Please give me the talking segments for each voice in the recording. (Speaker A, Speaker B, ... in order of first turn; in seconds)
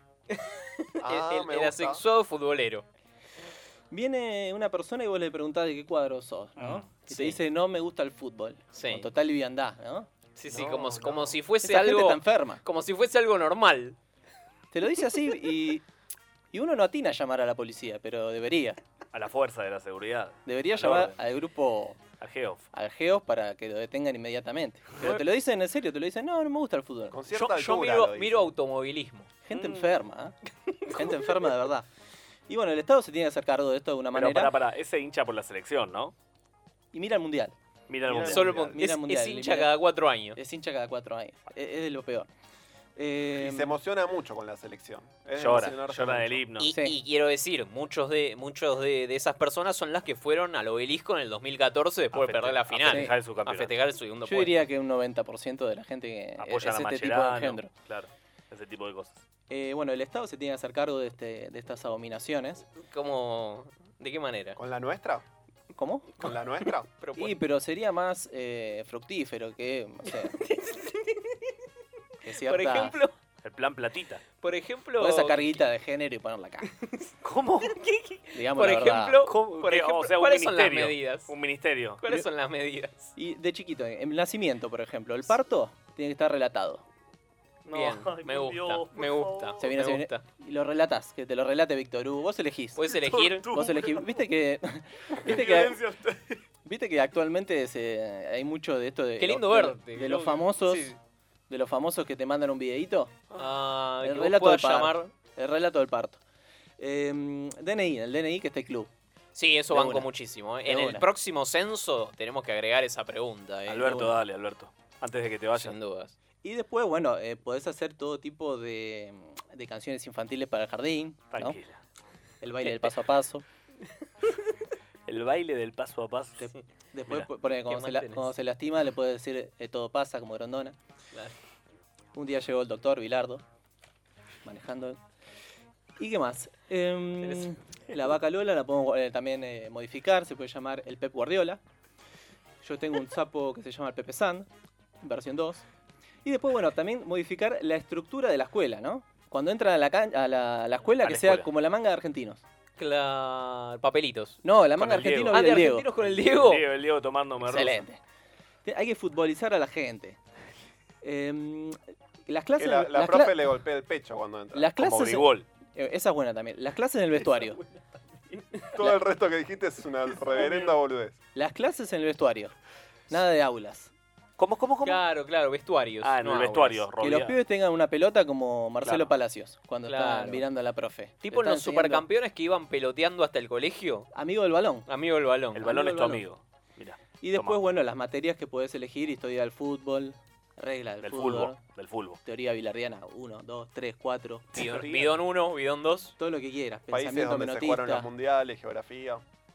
Speaker A: 0.3-2.8, 7.1-7.4, 8.7-9.1, 10.3-13.9, 27.3-29.3, 30.8-31.4, 38.2-40.4, 46.6-54.6, 62.9-64.6, 67.0-67.3, 70.1-71.4, 72.4-73.1, 74.4-75.5, 77.7-81.3, 82.0-83.1, 87.7-90.2, 92.8-93.5, 99.2-101.0, 103.3-105.1, 109.3-114.1, 115.5-116.1, 127.6-128.3, 137.2-137.5, 152.8-154.4, 155.3-156.6, 170.3-170.7, 174.8-176.8, 179.9-180.4, 181.2-184.1, 184.9-185.7, 194.5-196.1
Speaker B: 1.0-2.0, 10.5-11.4, 27.1-28.5, 38.1-38.7, 43.4-46.4, 64.6-65.2, 66.2-66.9, 162.6-164.7, 168.7-171.2, 196.9-199.2
Speaker C: 3.9-10.1, 11.6-12.6, 14.7-15.8, 16.5-18.8, 20.4-22.0, 22.7-27.2, 29.4-30.3, 30.9-31.9, 32.5-34.5, 36.9-37.5, 38.3-39.7, 40.3-42.3, 43.0-43.7, 46.7-46.9, 52.8-53.1, 54.2-57.7, 59.5-62.6, 65.8-66.3, 67.2-70.3, 72.2-73.0, 75.0-76.7, 78.3-79.2, 83.2-86.8, 89.6-92.8, 93.5-95.8, 96.6-100.9, 101.5-103.1, 104.0-106.2, 106.8-108.9, 109.7-110.1, 110.7-111.0, 116.4-121.6, 122.4-123.4, 126.4-130.8, 132.1-133.4, 134.4-135.0, 136.0-141.6, 142.6-144.5, 145.0-145.6, 146.2-152.4, 154.4-155.8, 157.4-158.0, 158.6-160.2, 161.0-163.3, 164.5-167.6, 171.3-172.5, 173.1-173.9, 177.0-182.0, 184.1-184.9, 185.6-186.2, 187.2-191.6, 192.2-194.6, 196.2-198.1
Speaker D: 6.6-6.9, 19.1-21.1, 22.2-22.7, 29.5-29.9, 34.1-36.1, 37.9-38.7, 45.4-46.7, 52.1-53.8, 56.4-59.2, 73.4-74.2, 77.2-77.8, 79.2-82.0, 87.6-89.6, 92.8-94.2, 95.2-96.4, 113.7-115.8, 121.3-121.8, 125.1-126.5, 151.0-151.4, 154.8-157.8, 164.8-165.4, 174.4-175.0, 176.0-177.4, 178.8-179.1, 185.5-187.6, 191.0-192.2, 194.5-195.1